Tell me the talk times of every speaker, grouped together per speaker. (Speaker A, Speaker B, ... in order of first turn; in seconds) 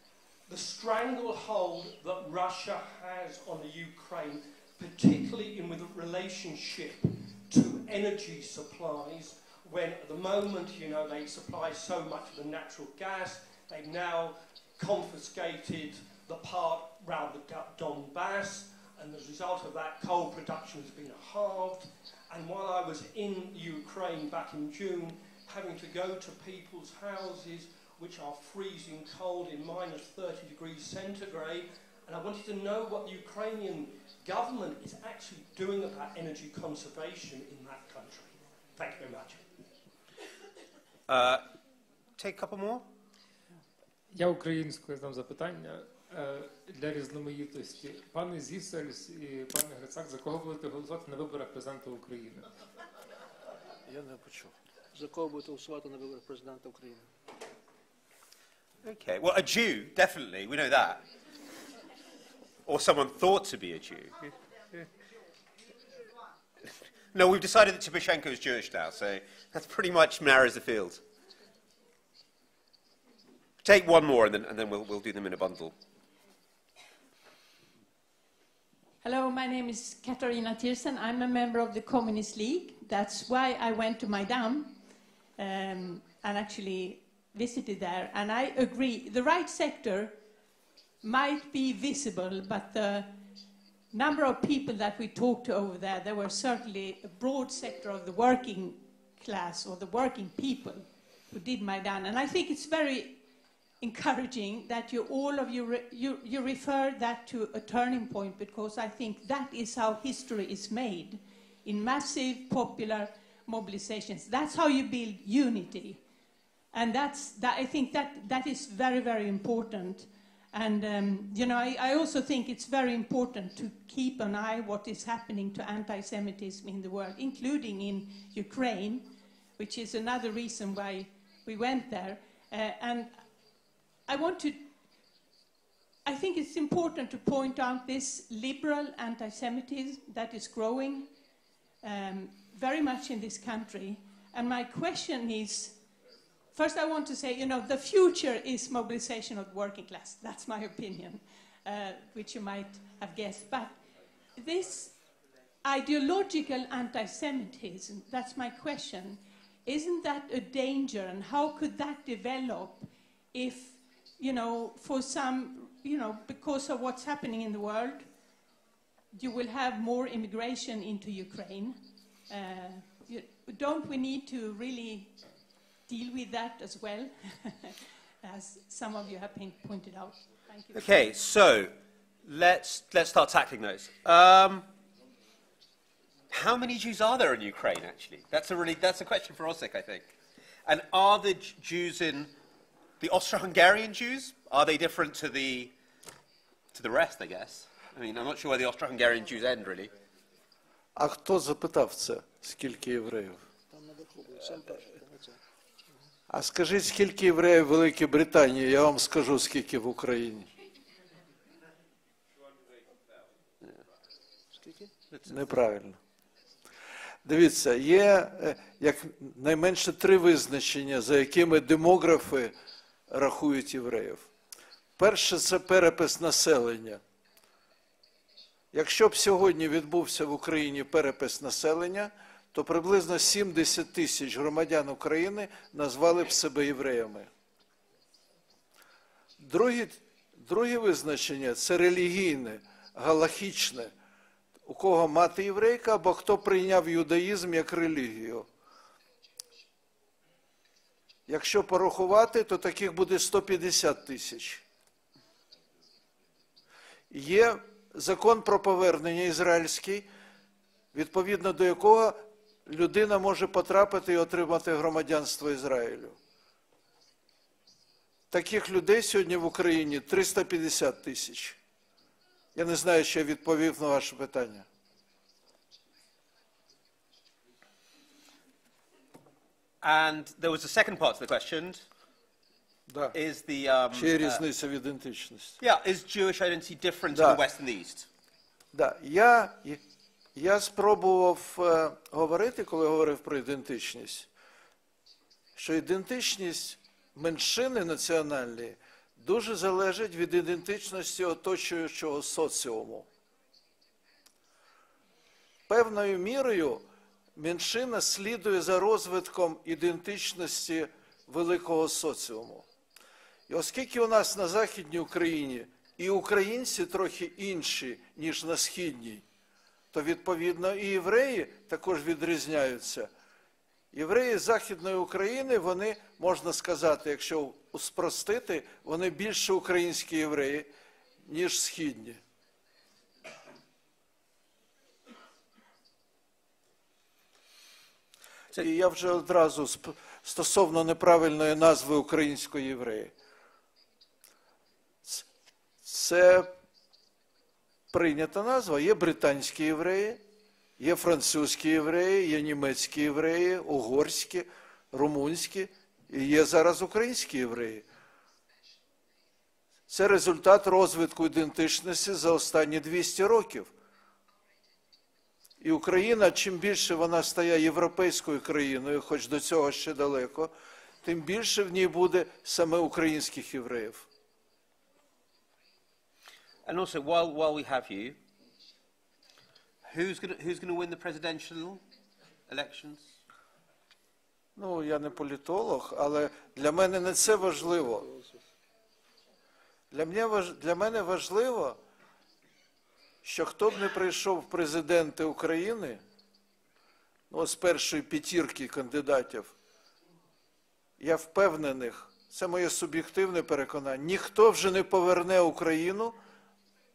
Speaker A: 0.5-39.6
Speaker B: 41.1-41.4, 42.2-42.9, 58.8-61.0, 62.7-64.2, 67.1-71.0, 73.6-75.8, 180.7-181.7, 182.2-184.7, 186.3-190.1, 190.7-192.3, 193.0-195.7, 196.7-199.9, 279.8-281.8, 283.1-284.4, 285.6-288.1, 376.7-378.2, 379.9-381.8, 382.5-383.2
Speaker C: 44.1-52.5
Speaker D: 53.9-54.5, 201.0-203.4, 206.3-210.5, 215.3-216.0, 217.2-222.6, 223.1-224.3, 225.0-227.0, 228.7-237.3, 239.4-243.9, 244.7-248.5, 251.3-254.6, 257.1-260.1, 260.9-266.2, 268.3-271.6, 272.6-274.7, 282.9-283.1, 283.9-285.6, 287.1-287.4, 288.7-289.8, 290.4-294.3, 295.6-303.1, 305.7-312.7, 313.5-319.2, 319.9-323.1, 323.9-330.7, 331.2-332.2, 338.6-343.1, 345.8-346.5, 347.9-350.2, 350.8-357.9, 359.9-363.7, 365.6-370.5, 371.0-374.1, 384.6-388.1, 389.9-391.8, 393.2-396.0, 397.3-399.5, 401.0-406.2
Speaker E: 54.9-57.1, 203.7-205.3, 214.6-214.9
Speaker F: 79.0-84.8, 85.4-90.2, 91.0-93.2, 93.9-103.2, 103.8-116.0, 116.7-133.2, 134.1-134.6, 136.1-141.1, 141.8-145.8, 146.5-153.8, 154.4-154.9, 155.6-168.1, 169.1-175.2, 175.9-181.0